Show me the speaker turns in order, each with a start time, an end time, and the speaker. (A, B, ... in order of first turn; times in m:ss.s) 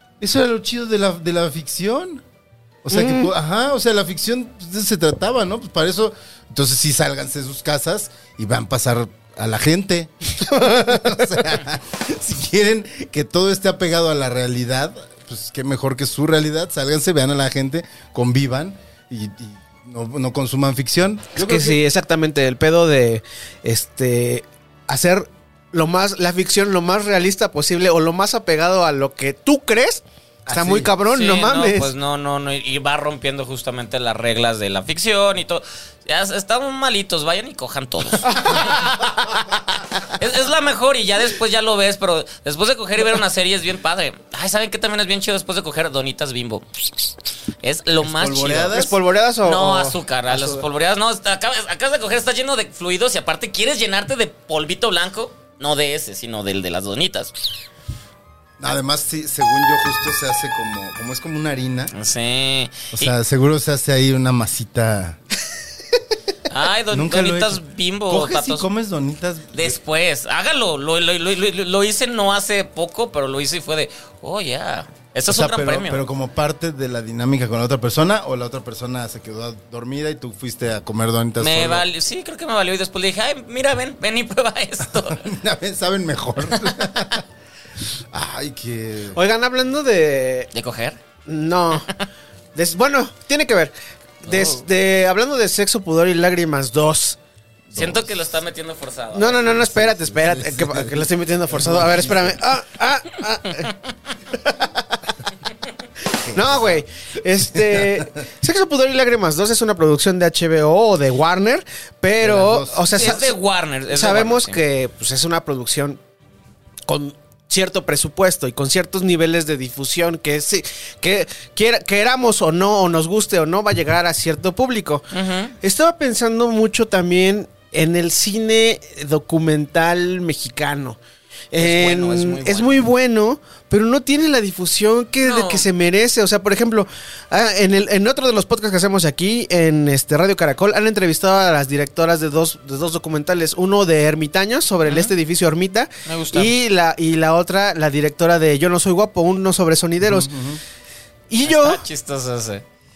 0:00.2-0:02.2 A
0:02.8-0:21.8 A
0:02.9-0:03.3 B
0:21.4-0:31.9 B
0:30.5-0:30.9 A
0:31.0-0:39.2 C
0:38.3-0:38.8 B
0:39.7-0:48.8 C
0:48.0-0:49.0 A
0:48.7-0:50.6 B
0:49.4-0:57.3 C
0:58.6-1:01.9 A
1:01.9-1:03.1 C
1:02.9-1:05.2 A
1:06.5-1:08.7 C
1:06.9-1:09.8 A
1:09.5-1:16.0 C
1:15.3-1:21.9 A
1:21.4-1:25.3 C
1:24.8-1:27.2 A
1:28.1-1:29.2 A
1:29.1-1:30.5 B
1:30.5-1:31.0 C
1:31.3-1:31.9 B
1:32.6-1:37.2 B
1:34.3-1:34.6 C
1:37.7-1:38.2 A
1:37.7-1:39.6 C
1:39.1-1:43.7 B
1:39.5-1:42.4 A
1:44.4-1:45.0 B
1:46.2-1:46.8 A
1:46.3-1:53.4 B
1:47.4-1:48.1 A
1:52.2-1:53.1 A
1:52.9-1:54.6 C
1:53.9-1:56.0 B
1:56.9-2:05.1 B
2:05.1-2:05.6 C
2:05.6-2:11.0 B
2:11.5-2:30.3 B
2:11.6-2:12.8 C
2:15.2-2:15.7 C
2:24.9-2:25.1 C
2:26.1-2:26.5 C
2:30.0-2:30.6 A
2:31.3-2:31.8 B
2:31.4-2:32.6 C